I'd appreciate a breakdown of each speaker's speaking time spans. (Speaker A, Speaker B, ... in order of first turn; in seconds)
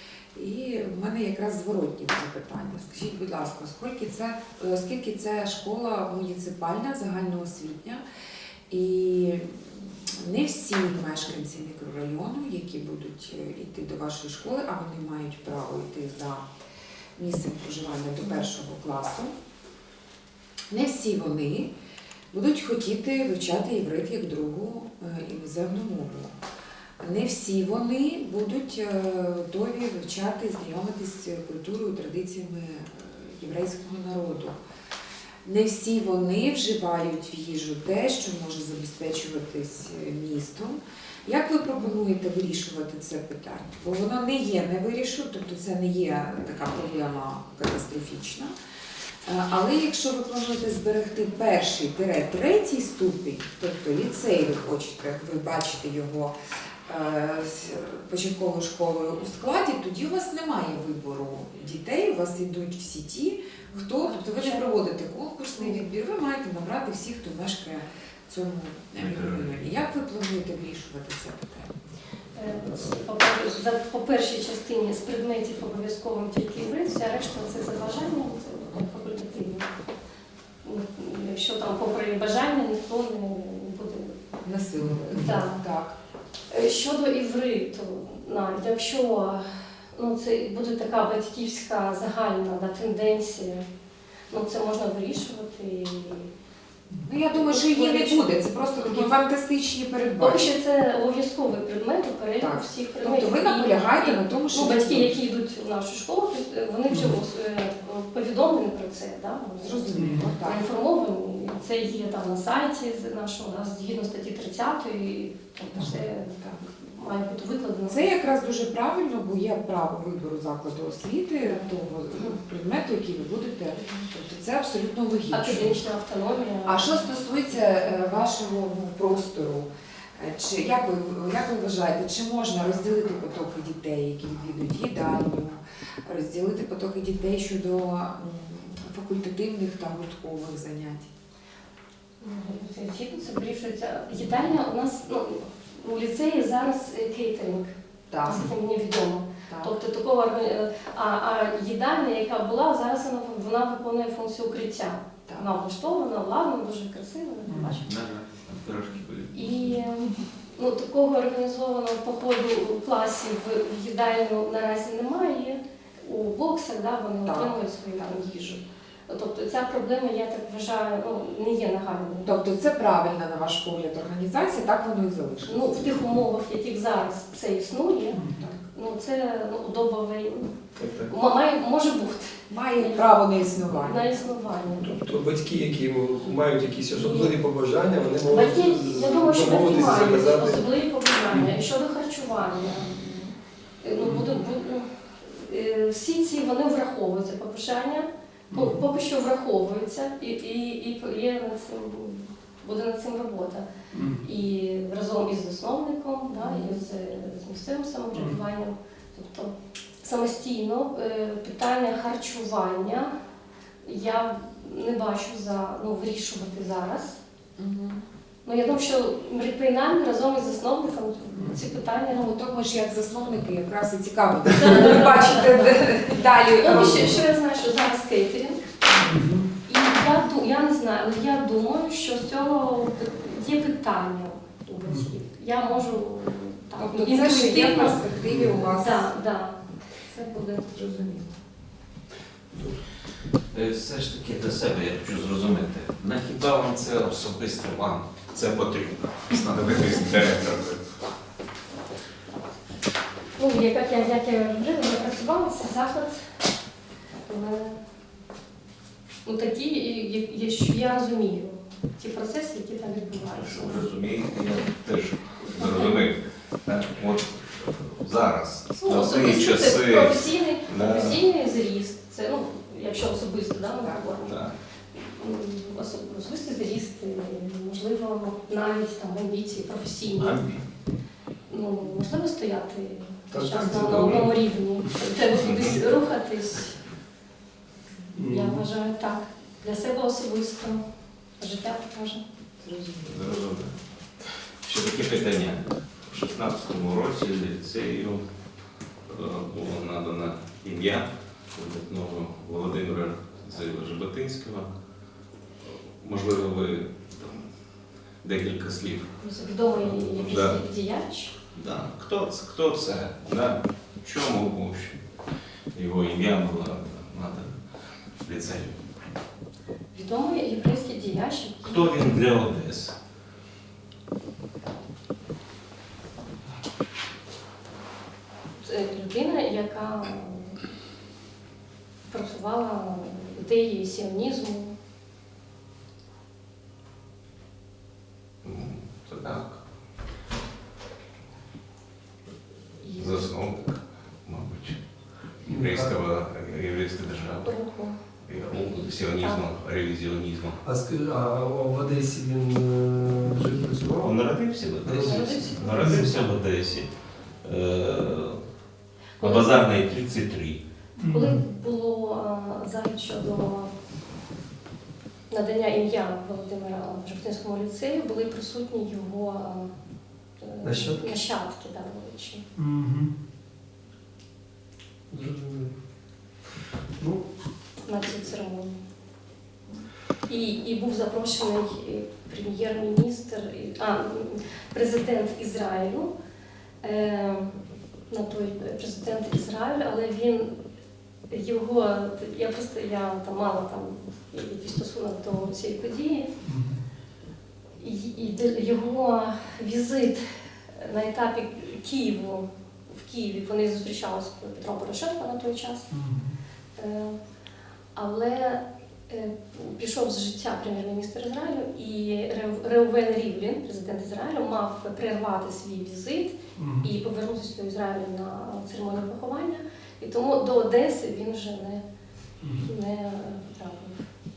Speaker A: 0.3-8.0, 8.7-16.4, 17.1-19.3, 20.7-21.7, 22.3-26.4, 27.0-34.6, 35.4-48.5, 49.2-56.3, 56.9-71.8, 84.4-86.0, 97.0-100.5, 102.4-105.1, 109.6-110.6, 116.3-116.6, 117.9-125.8, 126.6-141.1, 148.1-148.5, 149.5-149.8, 167.2-167.6, 172.2-176.0, 182.5-184.1, 206.4-206.8, 217.6-218.0, 222.1-227.2, 236.8-239.1, 240.6-241.4, 273.8-274.1, 292.6-293.3
Speaker B: 63.7-64.8, 65.5-65.8, 72.3-79.7, 80.6-84.2, 85.1-85.6, 86.5-89.4, 89.9-93.7, 94.3-96.3, 97.3-99.1, 100.2-109.9, 110.4-118.0, 121.4-122.4, 123.8-124.0, 125.3-128.1, 142.2-147.7, 148.2-157.9, 159.3-172.3, 175.5-180.5, 181.1-183.1, 183.8-184.9, 186.9-187.3, 188.2-193.0, 193.8-203.7, 204.2-213.1, 213.8-217.2, 218.4-222.3, 224.5-225.9, 226.6-228.6, 229.7-238.0, 238.7-240.7, 253.4-256.2, 257.2-257.8, 259.2-263.9, 265.5-266.0, 268.8-274.4, 274.9-280.4, 281.5-286.8, 288.3-290.8, 291.4-292.2, 309.2-311.3, 319.9-321.9, 328.6-330.6, 332.1-334.7, 342.8-343.3, 347.4-348.0, 348.7-349.5, 355.0-356.2, 359.2-359.5, 361.1-363.7, 365.3-369.7, 370.4-372.4, 377.9-378.7, 380.3-386.1, 386.8-387.6, 388.1-390.5, 391.3-396.3, 397.8-405.9, 406.8-407.2, 407.9-421.8, 422.6-424.0
Speaker C: 69.0-69.5, 157.8-159.8, 243.5-250.9, 263.2-271.2, 274.2-274.5, 280.1-280.6, 285.4-285.8, 293.0-293.7, 294.6-298.2, 299.1-304.7, 305.6-307.4, 308.2-309.1, 309.7-310.6, 311.5-315.0, 315.8-317.6, 318.2-318.8, 321.6-322.9, 338.4-339.6, 342.9-344.8, 345.4-347.5, 348.2-350.6, 354.0-356.9, 357.4-358.4, 359.2-360.6
Speaker D: 106.9-107.1, 110.0-110.3, 157.5-157.8, 178.1-178.4, 180.8-181.1, 184.8-190.6, 194.0-194.3, 198.5-198.8, 203.9-204.2, 208.1-208.4, 229.0-229.5, 238.3-238.7, 242.5-242.8, 283.3-284.3, 288.1-288.6, 345.4-345.9, 350.6-354.2, 354.8-356.3, 361.0-361.4, 370.6-371.2, 372.6-373.1, 375.1-375.7, 377.0-377.3, 396.4-396.8, 405.9-406.4, 416.6-416.9